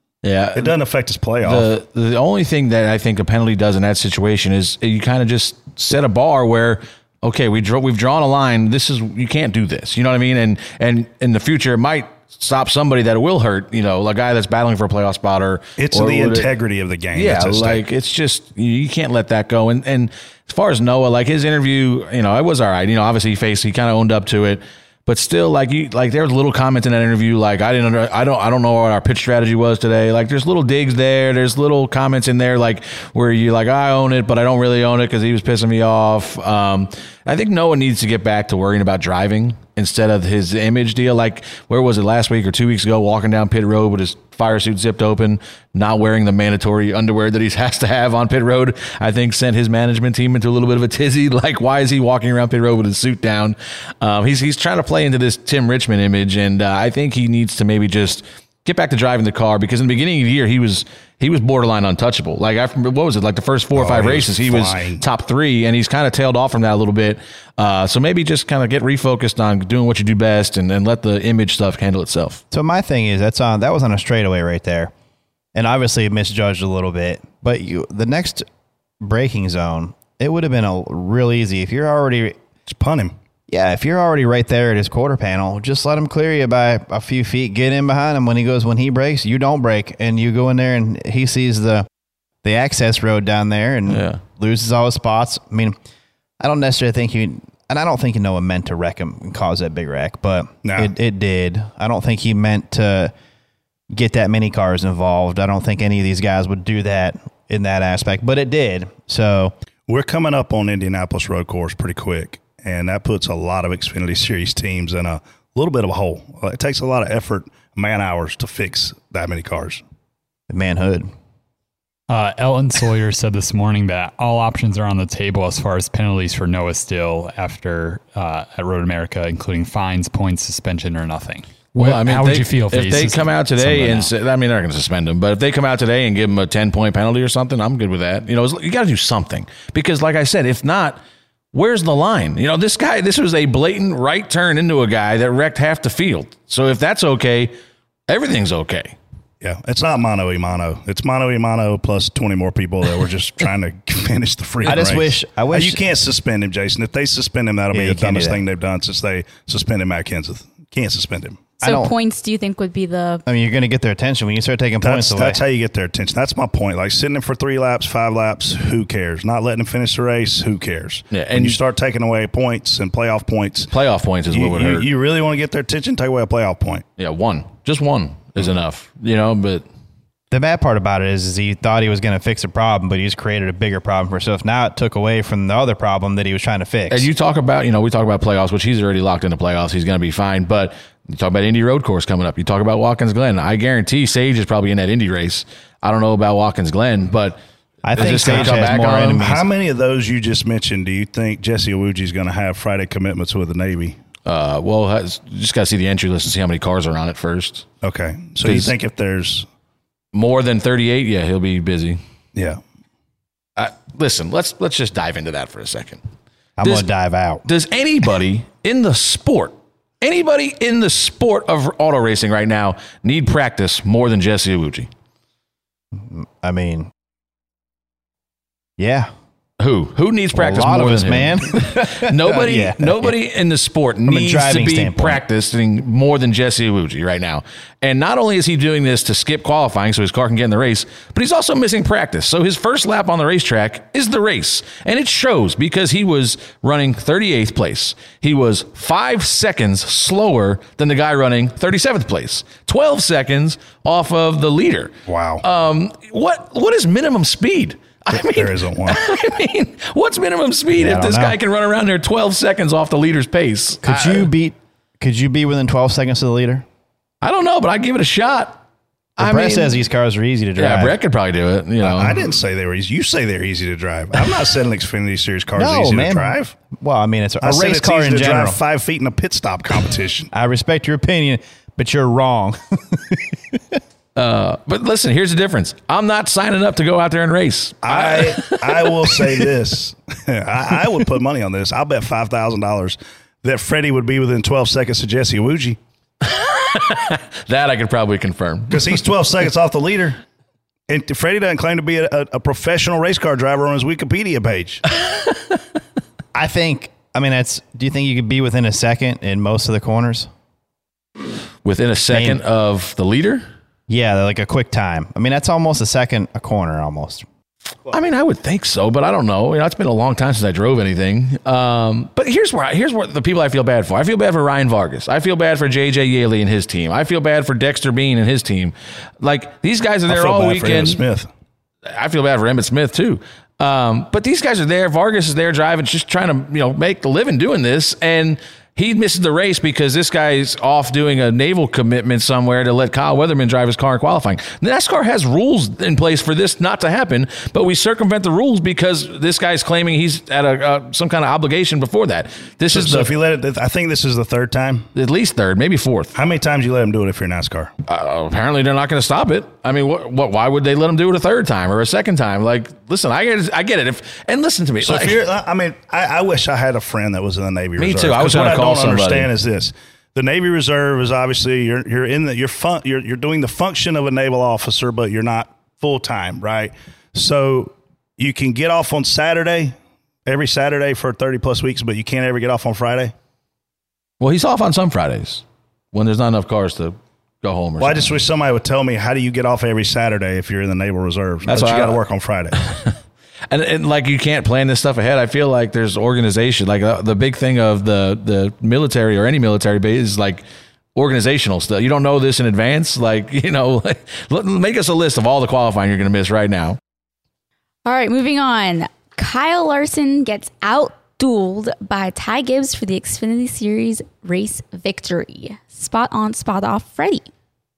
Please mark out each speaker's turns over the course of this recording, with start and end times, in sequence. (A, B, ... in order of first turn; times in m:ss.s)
0:00.2-0:00.8 A
0:00.6-0:01.7 B
0:01.4-0:16.5 A
0:15.8-0:17.8 B
0:17.1-1:12.4 A
1:03.8-1:05.0 B
1:12.5-1:14.9 C
1:15.6-1:18.5 C
1:19.0-1:22.4 C
1:22.7-1:23.2 B
1:23.5-1:31.9 C
1:32.4-1:35.8 C
1:33.9-1:34.2 A
1:36.4-1:43.1 C
1:40.6-1:40.9 B
1:43.9-1:49.5 C
1:49.9-1:59.8 B
2:00.5-2:01.1 C
2:02.1-2:14.1 D
2:11.8-2:21.0 A
2:21.5-2:27.5 A
2:28.1-2:29.0 A
2:29.4-2:41.4 B
2:34.6-2:35.8 C
2:37.7-2:38.4 C
2:41.6-2:41.9 C
2:41.6-2:43.2 E
2:43.3-2:45.4 C
2:44.8-2:53.7 B
2:51.1-2:51.6 A
2:53.7-2:54.9 A
2:54.3-2:56.8 B
2:57.0-2:59.6 A
3:00.3-3:07.1 C
3:06.9-3:17.4 A
3:17.8-3:19.5 C
3:18.0-3:19.3 A
3:18.0-3:24.0 B
3:24.3-3:27.7 A
3:27.8-3:29.5 B
3:28.4-3:28.7 A
3:30.1-3:32.0 A
3:32.4-3:32.6 B
3:33.6-3:36.0 A
3:36.6-3:37.4 C
3:37.5-3:44.9 A
3:46.0-3:46.9 C
3:48.8-3:49.1 C
3:49.6-4:24.3 A
3:50.3-3:53.2 C
3:54.0-3:55.2 C
4:15.1-4:15.4 B
4:18.1-4:19.0 B
4:20.8-4:21.4 C
4:23.8-4:26.6 C
4:27.2-4:28.6 A
4:29.2-4:31.0 C
4:29.2-4:29.8 A
4:30.6-4:32.3 A
4:31.8-4:36.6 B
4:35.6-4:38.6 C
4:37.4-4:40.3 B
4:40.3-4:43.8 C
4:44.2-4:49.3 A
4:47.8-4:55.8 B
4:56.7-4:59.0 A
4:58.7-5:00.2 B
5:00.9-5:04.8 B
5:06.4-5:10.3 C
5:11.6-5:13.4 A
5:12.1-5:12.4 C
5:13.9-5:17.2 C
5:17.9-5:31.0 A
5:30.1-5:31.3 B
5:31.9-5:53.1 A
5:52.7-5:54.9 B
5:55.0-5:56.2 A
5:56.2-5:57.7 B
5:57.9-6:05.2 A
6:04.8-6:23.1 B
6:07.8-6:09.3 A
6:24.2-6:28.1 A
6:27.8-6:32.7 B
6:31.5-6:32.0 A
6:33.5-6:40.4 A
6:41.0-6:46.8 A
6:47.8-6:57.3 E